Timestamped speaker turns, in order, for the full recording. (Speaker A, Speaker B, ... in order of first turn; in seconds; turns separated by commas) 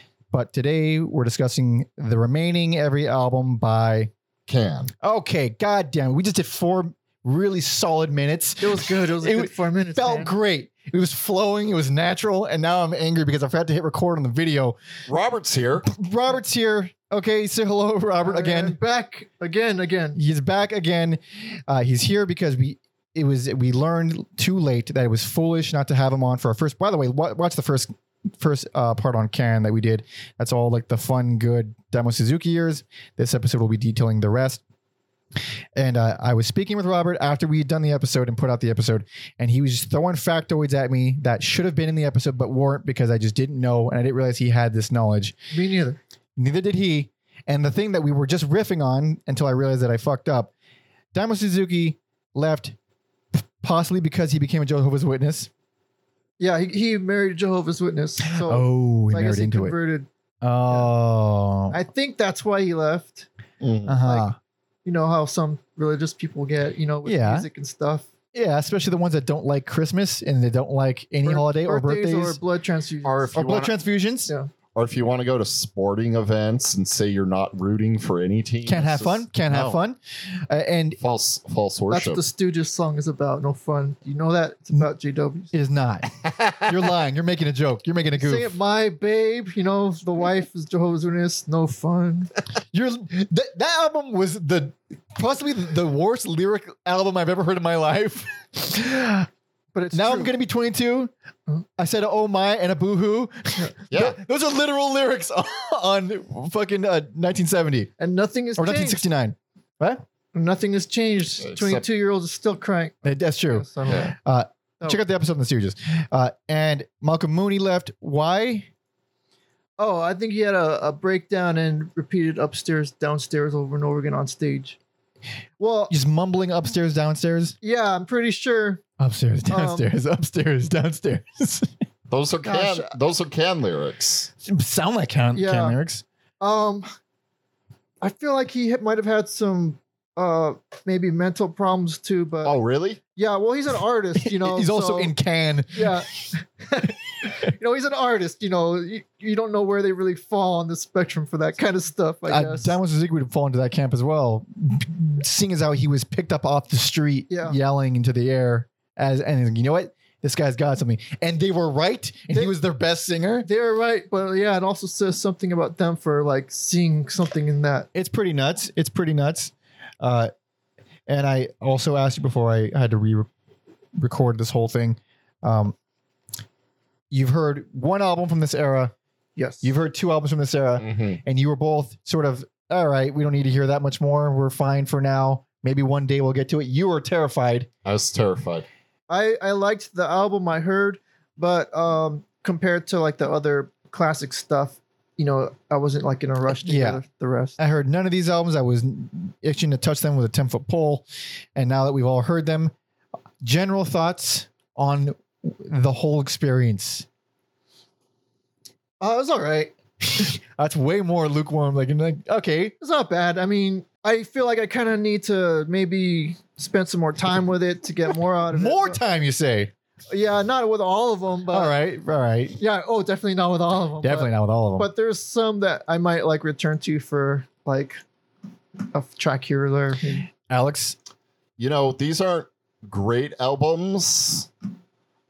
Speaker A: 0.3-4.1, Speaker B: 4.5-4.9, Speaker A: 5.0-14.8, Speaker C: 8.6-10.3, Speaker B: 15.1-15.9, Speaker A: 15.8-18.8, Speaker C: 18.2-20.2, Speaker A: 20.1-34.6, Speaker A: 35.8-45.4, Speaker C: 45.5-46.0, Speaker A: 46.4-50.5, Speaker A: 51.1-52.8, Speaker A: 53.6-55.5, Speaker C: 56.4-60.1, Speaker A: 58.4-59.8, Speaker A: 60.4-61.8, Speaker C: 61.7-63.3, Speaker B: 63.6-64.0, Speaker A: 63.9-64.4, Speaker C: 64.8-68.1, Speaker A: 67.0-67.5, Speaker A: 68.3-72.4, Speaker C: 71.2-73.3, Speaker B: 73.0-73.8, Speaker A: 73.3-74.3, Speaker B: 74.8-79.8, Speaker A: 78.7-81.0, Speaker B: 81.0-82.2, Speaker C: 81.9-85.5, Speaker A: 85.5-88.5, Speaker B: 86.2-86.7, Speaker C: 88.2-92.3, Speaker A: 92.7-99.3, Speaker C: 99.7-100.3, Speaker A: 99.9-101.1, Speaker A: 101.8-107.9, Speaker B: 103.9-104.2, Speaker C: 108.0-109.1, Speaker A: 108.6-110.0, Speaker C: 110.3-114.2, Speaker B: 111.4-111.8, Speaker A: 113.0-118.7, Speaker C: 119.8-124.8, Speaker C: 125.6-126.0, Speaker A: 125.9-127.5, Speaker C: 127.6-128.8, Speaker A: 129.0-131.7, Speaker C: 129.5-129.9, Speaker B: 132.1-134.3, Speaker C: 132.4-132.9, Speaker A: 134.4-136.0, Speaker C: 135.3-135.8, Speaker C: 136.4-136.9, Speaker C: 138.0-142.5, Speaker B: 142.4-143.0, Speaker C: 143.2-145.1, Speaker A: 144.3-146.0, Speaker C: 145.8-152.8, Speaker A: 152.3-163.5, Speaker C: 157.3-157.6, Speaker C: 163.4-167.9, Speaker A: 167.9-170.3, Speaker A: 171.1-173.3, Speaker A: 174.0-175.8, Speaker A: 177.1-178.9, Speaker C: 179.4-179.7, Speaker A: 179.6-187.7, Speaker B: 180.8-181.2, Speaker B: 187.8-188.7, Speaker C: 189.1-197.6, Speaker A: 196.5-197.0, Speaker A: 197.6-202.7, Speaker A: 203.4-207.1, Speaker C: 209.0-209.7, Speaker A: 210.0-212.8, Speaker C: 212.8-219.0, Speaker A: 218.5-219.7, Speaker C: 220.1-221.7, Speaker A: 221.5-222.6, Speaker C: 222.6-228.0, Speaker A: 224.0-224.9, Speaker C: 228.9-230.3, Speaker A: 230.5-231.0, Speaker B: 231.6-234.5